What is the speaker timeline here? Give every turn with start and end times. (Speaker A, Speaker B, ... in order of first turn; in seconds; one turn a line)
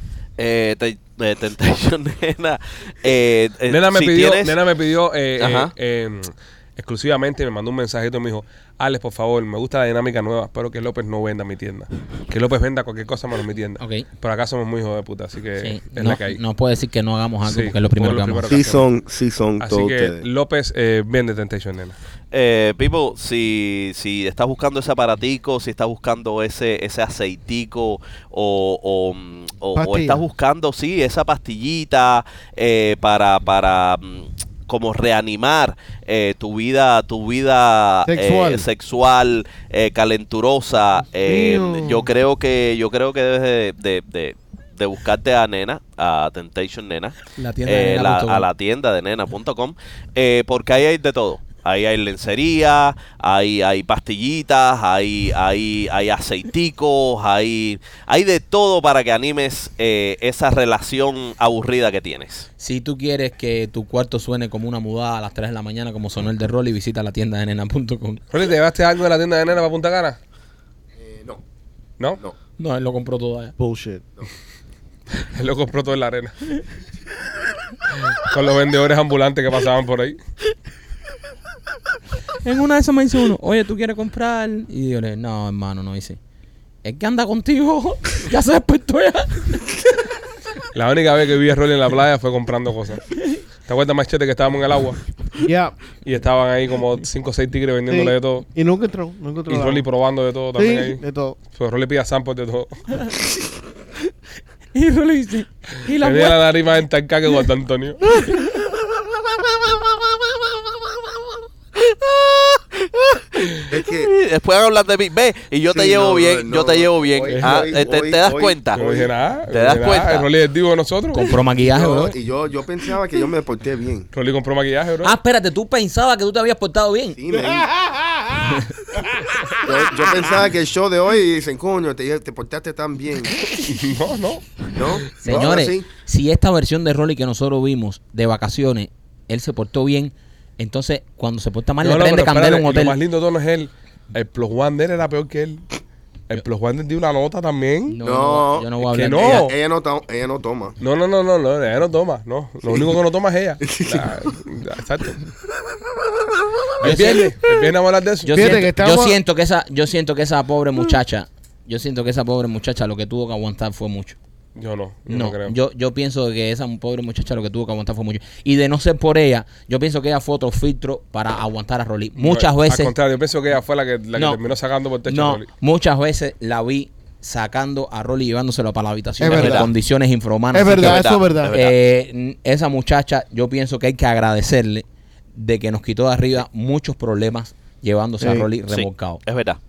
Speaker A: 0.4-4.5
Speaker B: 3.7-16.4
Speaker A: 5.4-5.7
Speaker C: 13.8-14.1
Speaker C: 15.6-18.6
Speaker B: 17.4-18.9
Speaker D: 18.4-20.2
Speaker B: 19.6-21.9
Speaker A: 22.3-62.5
Speaker E: 29.7-30.2
Speaker E: 38.1-38.7
Speaker E: 41.2-42.1
Speaker C: 47.4-48.5
Speaker C: 62.6-68.2
Speaker B: 68.3-70.2
Speaker D: 71.0-71.4
Speaker C: 72.6-73.5
Speaker E: 73.6-74.0
Speaker B: 75.2-76.3
Speaker B: 78.1-80.2
Speaker C: 82.4-86.2
Speaker C: 86.8-89.7
Speaker B: 90.7-93.0
Speaker B: 93.6-95.0
Speaker E: 95.4-95.9
Speaker B: 95.9-98.5
Speaker E: 97.9-99.9
Speaker B: 99.5-103.0
Speaker E: 100.5-101.4
Speaker C: 104.7-106.5
Speaker B: 106.0-108.2
Speaker A: 111.8-118.8
Speaker D: 113.7-114.1
Speaker D: 115.7-119.1
Speaker B: 117.4-117.7
Speaker B: 118.7-121.3
Speaker A: 119.5-120.3
Speaker C: 121.1-122.1
Speaker D: 121.4-124.1
Speaker B: 124.1-125.2
Speaker C: 125.0-127.2
Speaker D: 127.2-127.7
Speaker E: 127.3-128.4
Speaker D: 129.6-133.4
Speaker B: 133.6-135.0
Speaker D: 134.7-135.9
Speaker C: 135.2-143.0
Speaker B: 141.8-145.6
Speaker B: 146.3-148.0
Speaker C: 147.9-149.5
Speaker D: 148.0-150.8
Speaker B: 148.8-149.6
Speaker B: 150.8-155.2
Speaker D: 152.7-152.9
Speaker D: 153.6-154.2
Speaker B: 156.8-158.7
Speaker C: 156.8-157.3
Speaker C: 158.2-164.2
Speaker E: 158.3-159.2
Speaker B: 164.6-165.6
Speaker C: 165.1-172.9
Speaker B: 172.2-175.5
Speaker C: 174.2-174.4
Speaker C: 175.1-189.2
Speaker E: 179.2-179.7
Speaker A: 179.2-179.7
Speaker E: 180.5-181.5
Speaker A: 180.7-181.8
Speaker E: 188.2-188.5
Speaker A: 188.7-189.6